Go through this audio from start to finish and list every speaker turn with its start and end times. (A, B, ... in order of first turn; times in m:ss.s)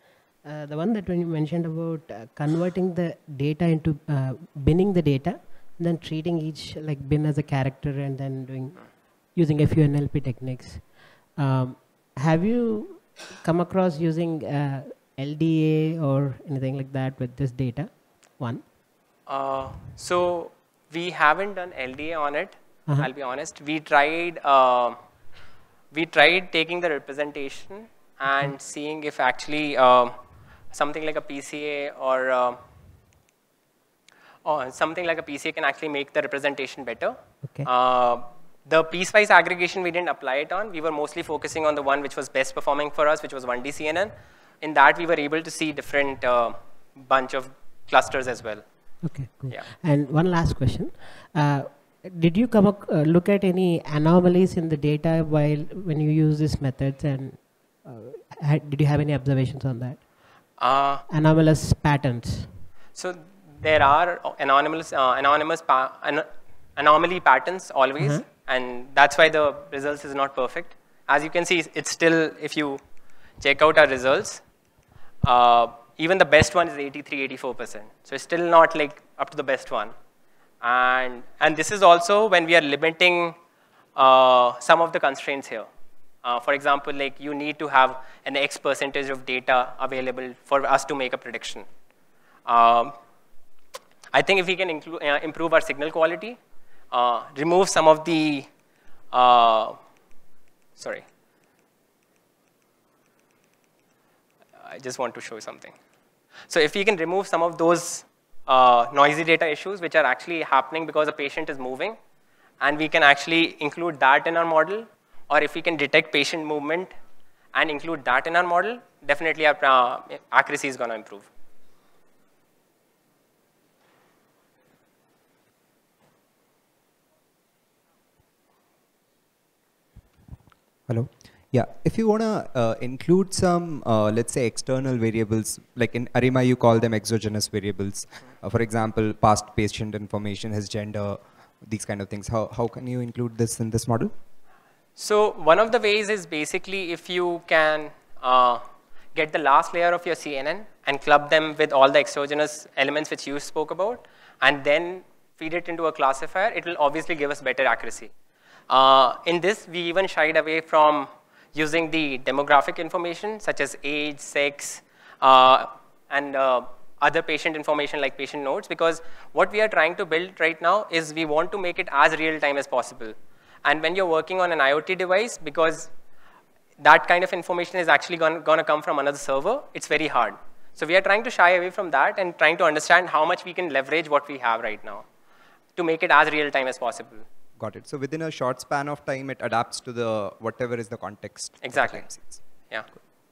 0:00.4-0:18.6 A
0:19.3-0:25.0 B
0:25.9-0:30.2 B
0:30.7-0:32.6 B
0:34.4-0:49.7 B
0:49.0-1:00.0 A
1:00.6-1:01.0 B
1:01.1-1:02.6 A
1:03.0-1:12.8 B
1:13.4-1:14.4 B
1:15.2-1:19.9 B
1:20.6-1:23.4 B
1:24.0-1:25.7 B
1:26.2-1:31.7 B
1:32.5-1:33.0 B
1:34.1-1:36.4 B
1:36.9-1:38.5 B
1:39.1-1:39.8 B
1:40.8-1:41.0 B
1:44.6-1:45.8 B
1:46.5-1:52.0 B
1:52.6-1:57.0 B
1:57.5-2:01.3 B
2:10.9-2:24.1 C
2:25.0-2:28.6 B
2:29.2-2:38.1 B
2:38.7-2:55.9 B
2:56.8-3:05.0 B
3:05.8-3:07.2 B
3:07.6-3:12.4 C
3:11.6-3:12.9 B